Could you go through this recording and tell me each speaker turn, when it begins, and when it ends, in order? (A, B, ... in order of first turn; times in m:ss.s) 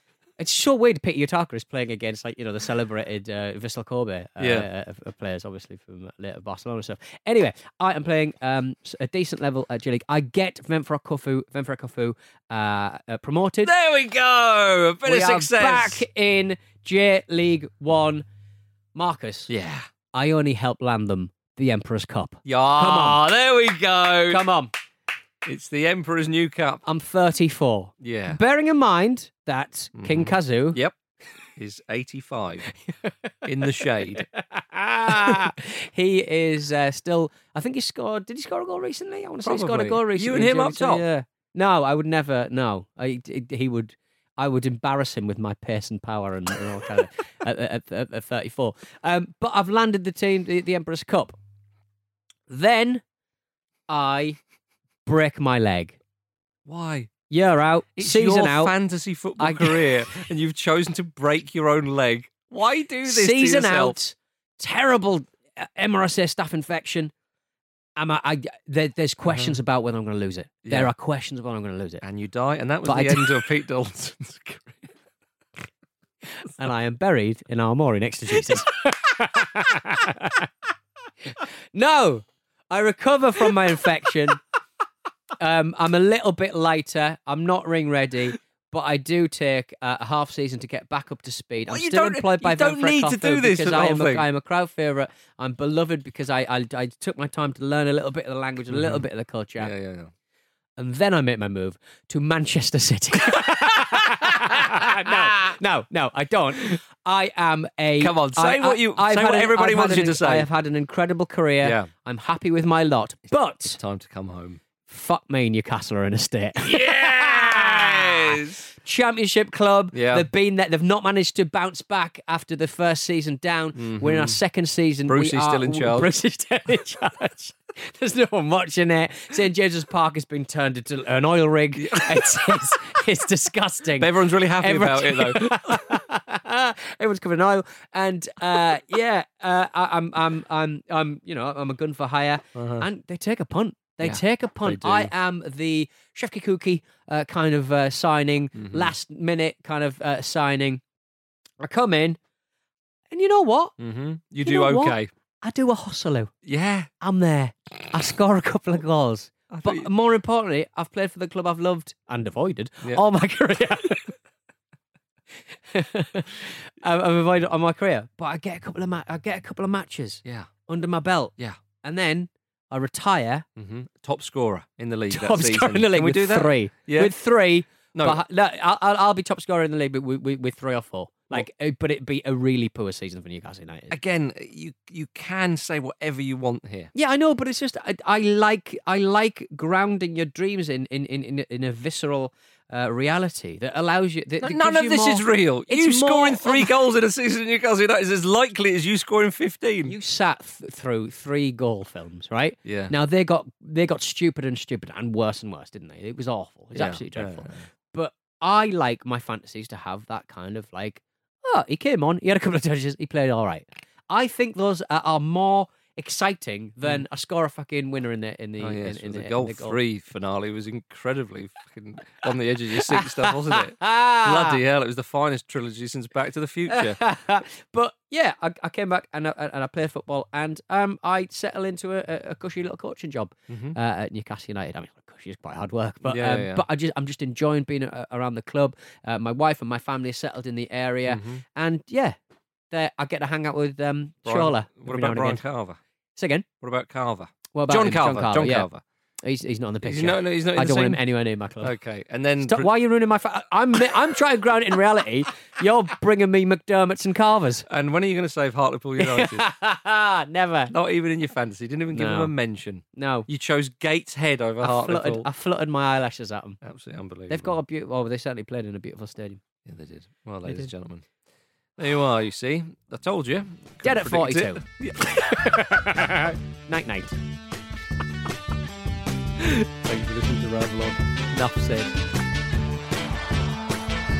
0:00.4-0:13.7 A
0:04.4-0:04.7 B
0:13.6-0:16.0 B
0:15.0-0:18.2 A
0:18.9-0:19.5 A
0:19.5-0:19.8 B
0:20.1-0:23.2 A
0:22.4-0:24.5 B
0:24.3-0:24.7 A
0:25.4-0:26.8 B
0:26.8-0:30.8 A
0:28.0-0:28.4 B
0:30.0-0:30.9 B
0:31.6-0:32.7 B
0:33.4-0:34.2 B
0:33.8-0:51.3 A
0:35.0-0:35.4 B
0:39.4-0:41.0 B
0:52.5-0:53.0 A
0:53.9-0:54.4 A
0:55.0-0:56.0 A
0:56.6-0:57.1 B
0:57.3-0:58.8 A
0:58.0-1:04.0 B
0:59.4-1:00.0 A
1:03.0-1:07.1 A
1:08.0-1:12.0 A
1:09.2-1:09.6 B
1:10.6-1:10.9 B
1:12.0-1:14.9 B
1:12.8-1:13.4 A
1:16.5-1:20.5 A
1:21.7-1:24.4 A
1:25.4-1:39.7 A
1:31.7-1:34.2 B
1:38.7-1:39.0 B
1:39.6-1:40.1 B
1:40.8-1:53.8 A
1:44.7-1:45.1 B
1:48.0-1:50.5 B
1:51.6-1:51.9 B
1:53.6-1:54.6 B
1:54.8-2:30.8 A
1:56.6-1:58.7 B
1:59.9-2:00.2 B
2:03.8-2:04.4 B
2:05.1-2:06.1 B
2:11.8-2:12.6 B
2:14.0-2:15.8 B
2:22.5-2:22.9 B
2:24.0-2:25.1 B
2:28.6-2:28.9 B
2:31.6-2:32.2 A
2:33.1-2:33.7 A
2:33.8-2:35.1 B
2:34.4-2:36.3 A
2:36.4-2:36.9 B
2:37.0-2:44.2 A
2:39.5-2:39.9 B
2:45.7-2:53.4 A
2:50.2-2:50.5 B
2:53.6-2:57.1 B
2:55.1-3:03.9 A
2:57.9-2:58.2 B
3:03.9-3:06.9 B
3:06.9-3:16.7 A
3:14.4-3:19.9 B
3:19.8-3:39.8 A
3:22.6-3:22.9 B
3:26.7-3:27.6 B
3:38.6-3:47.0 B
3:42.8-3:44.6 A
3:46.7-4:02.2 A
3:53.5-3:53.8 B
3:56.0-3:56.6 B
4:01.1-4:01.4 B
4:02.7-4:05.4 A
4:04.2-4:05.8 B
4:06.2-4:06.4 A
4:06.6-4:08.8 B
4:07.5-4:08.7 A
4:09.2-4:11.7 A
4:09.8-4:11.0 B
4:11.6-4:12.7 B
4:12.4-4:17.6 A
4:17.7-4:19.5 B
4:19.0-4:20.7 A
4:20.7-4:25.3 B
4:21.9-4:22.3 A
4:23.0-4:23.3 A
4:24.6-4:26.6 A
4:26.6-4:27.6 B
4:27.3-4:29.4 A
4:29.6-4:31.0 B
4:30.4-4:30.7 A
4:31.8-4:35.3 B
4:33.8-4:37.2 A
4:39.8-4:41.9 B